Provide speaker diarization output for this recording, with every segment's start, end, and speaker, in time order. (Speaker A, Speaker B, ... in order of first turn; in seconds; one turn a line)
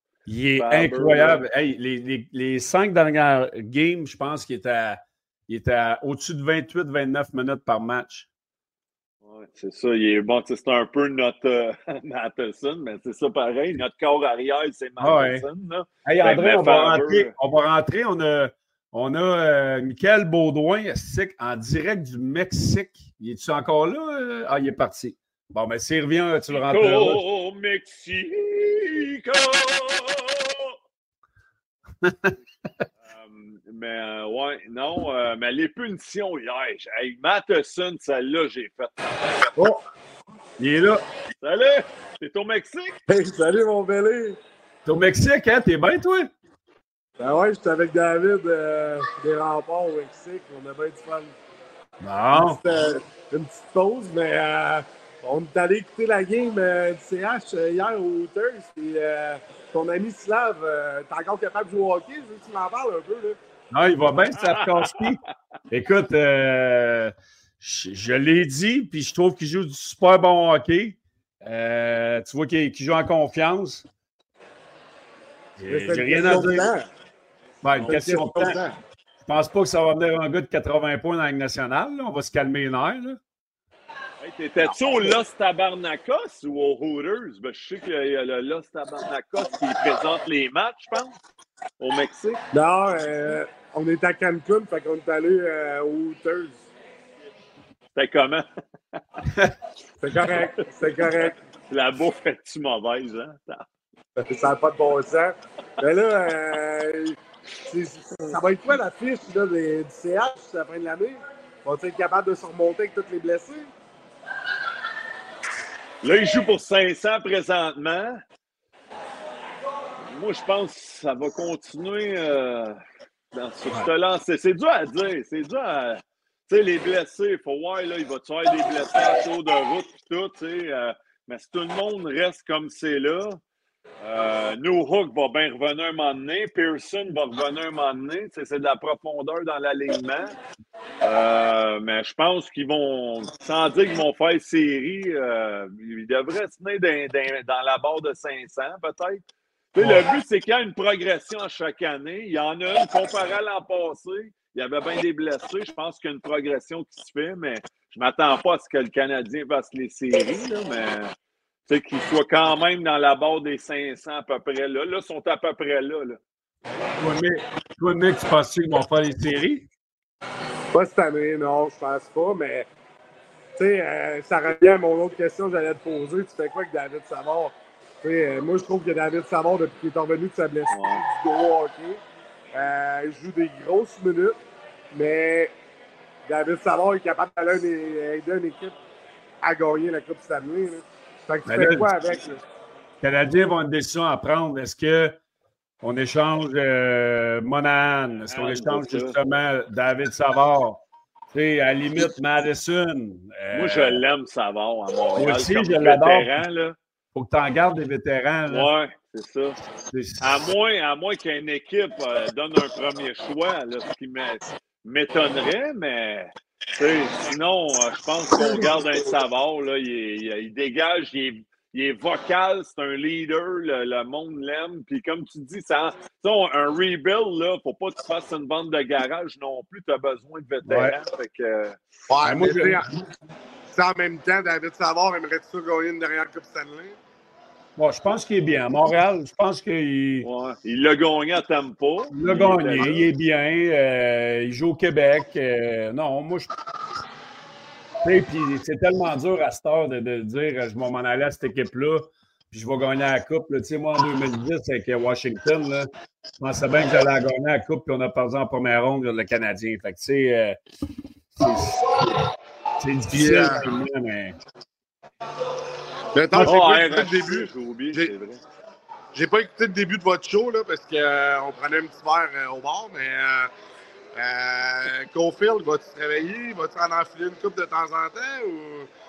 Speaker A: 0.3-8.3
Speaker B: 0.6-1.4
Speaker B: 9.2-17.3
Speaker A: 15.0-15.4
Speaker A: 16.0-27.2
Speaker B: 26.5-30.8
Speaker A: 32.0-32.8
Speaker B: 33.0-39.4
Speaker C: 39.5-39.8
Speaker A: 40.6-41.0
Speaker B: 41.4-43.0
Speaker C: 43.1-44.4
Speaker A: 44.9-46.3
Speaker C: 47.2-51.3
Speaker A: 52.0-52.6
Speaker C: 52.3-63.4
Speaker A: 63.7-65.2
Speaker B: 64.3-64.9
Speaker A: 65.7-73.8
Speaker A: 75.6-76.7
Speaker C: 75.7-76.9
Speaker A: 77.6-78.6
Speaker C: 77.8-78.8
Speaker A: 79.2-83.2
Speaker B: 84.2-91.2
Speaker B: 91.8-92.4
Speaker C: 92.5-96.6
Speaker B: 98.0-98.5
Speaker C: 100.0-101.3
Speaker B: 100.3-103.6
Speaker C: 104.2-113.7
Speaker B: 116.0-118.2
Speaker B: 120.0-122.8
Speaker B: 123.3-133.4
Speaker B: 134.0-140.3
Speaker B: 141.0-149.2
Speaker B: 149.7-161.1
Speaker A: 149.8-150.1
Speaker B: 161.7-166.2
Speaker A: 167.0-169.7
Speaker C: 170.7-172.7
Speaker C: 173.6-182.0
Speaker B: 180.7-181.0
Speaker C: 182.5-184.4
Speaker C: 184.9-185.5
Speaker C: 186.3-188.7
Speaker C: 189.4-192.4
Speaker A: 191.4-191.9
Speaker A: 193.0-195.2
Speaker A: 195.8-200.8
Speaker B: 198.3-199.2
Speaker A: 201.3-204.0
Speaker B: 203.5-206.8
Speaker A: 205.2-206.4
Speaker A: 207.1-208.7
Speaker B: 208.5-209.6
Speaker A: 209.8-210.5
Speaker B: 210.2-231.8
Speaker A: 230.6-231.0
Speaker C: 232.1-232.9
Speaker A: 232.2-233.0
Speaker C: 233.7-236.9
Speaker A: 237.8-240.3
Speaker B: 240.2-243.1
Speaker A: 242.1-246.5
Speaker A: 248.0-260.6
Speaker A: 261.3-262.2
Speaker A: 262.8-264.4
Speaker C: 263.1-263.6
Speaker C: 266.1-268.1
Speaker A: 266.3-266.7
Speaker B: 266.4-268.4
Speaker C: 269.1-273.5
Speaker C: 274.1-278.9